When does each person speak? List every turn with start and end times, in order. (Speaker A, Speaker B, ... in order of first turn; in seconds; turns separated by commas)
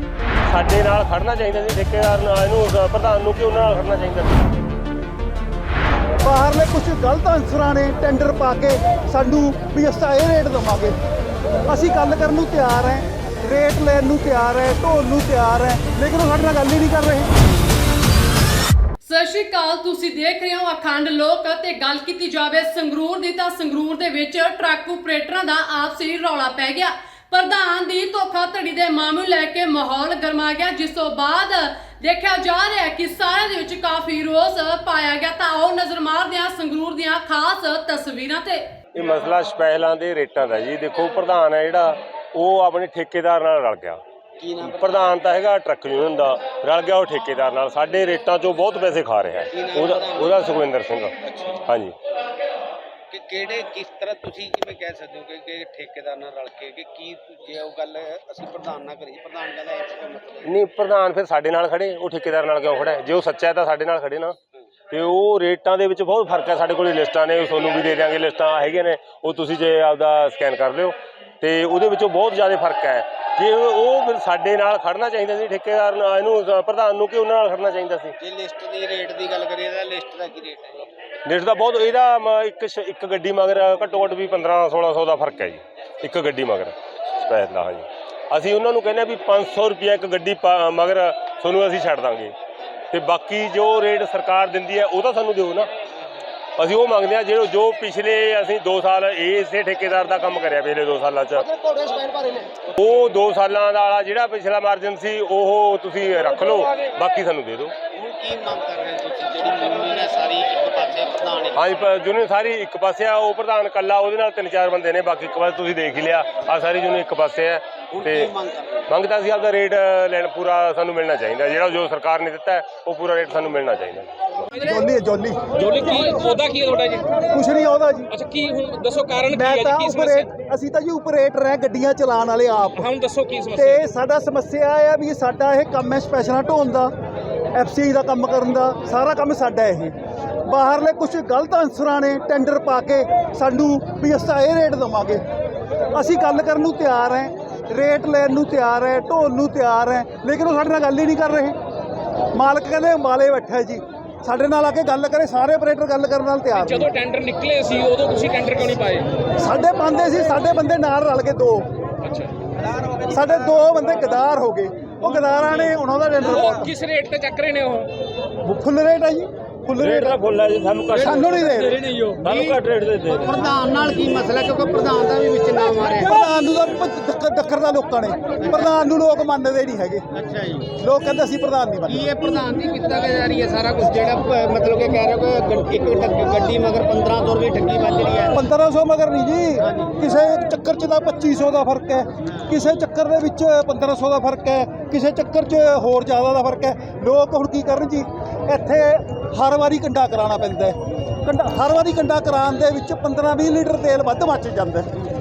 Speaker A: 0.5-4.5, Speaker B: 6.2-10.9, Speaker B: 11.7-17.3, Speaker C: 19.0-38.8, Speaker A: 38.9-44.0, Speaker D: 44.4-45.1, Speaker A: 44.6-52.0, Speaker D: 49.5-50.5, Speaker D: 51.3-51.5, Speaker D: 53.1-60.5, Speaker A: 60.5-64.3, Speaker A: 64.9-78.2, Speaker D: 78.2-80.9, Speaker A: 81.3-92.3, Speaker A: 92.9-95.7, Speaker A: 96.6-101.5, Speaker D: 101.5-102.5, Speaker A: 102.7-107.7, Speaker D: 107.9-111.9, Speaker A: 111.6-118.3, Speaker D: 117.9-118.9, Speaker A: 118.9-124.1, Speaker E: 124.5-124.8, Speaker B: 124.6-125.4, Speaker E: 125.6-127.2, Speaker B: 127.3-128.1, Speaker E: 128.1-130.3, Speaker B: 129.3-132.8, Speaker E: 132.8-133.9, Speaker B: 133.6-136.9, Speaker B: 137.5-139.9, Speaker B: 140.5-145.2, Speaker B: 145.9-151.6, Speaker B: 152.3-156.9, Speaker E: 156.6-159.1, Speaker B: 159.4-161.7, Speaker E: 162.0-162.3, Speaker B: 163.1-166.7, Speaker E: 166.2-167.9, Speaker B: 168.4-170.2, Speaker A: 169.8-171.6, Speaker B: 171.0-171.9, Speaker E: 171.8-172.2, Speaker A: 172.2-173.4, Speaker D: 172.2-172.6, Speaker D: 173.2-176.1, Speaker B: 176.0-180.1, Speaker D: 178.4-178.7, Speaker D: 180.1-180.8, Speaker B: 180.8-182.1, Speaker D: 181.9-188.4, Speaker B: 188.3-204.9, Speaker D: 189.6-190.0, Speaker D: 192.2-192.5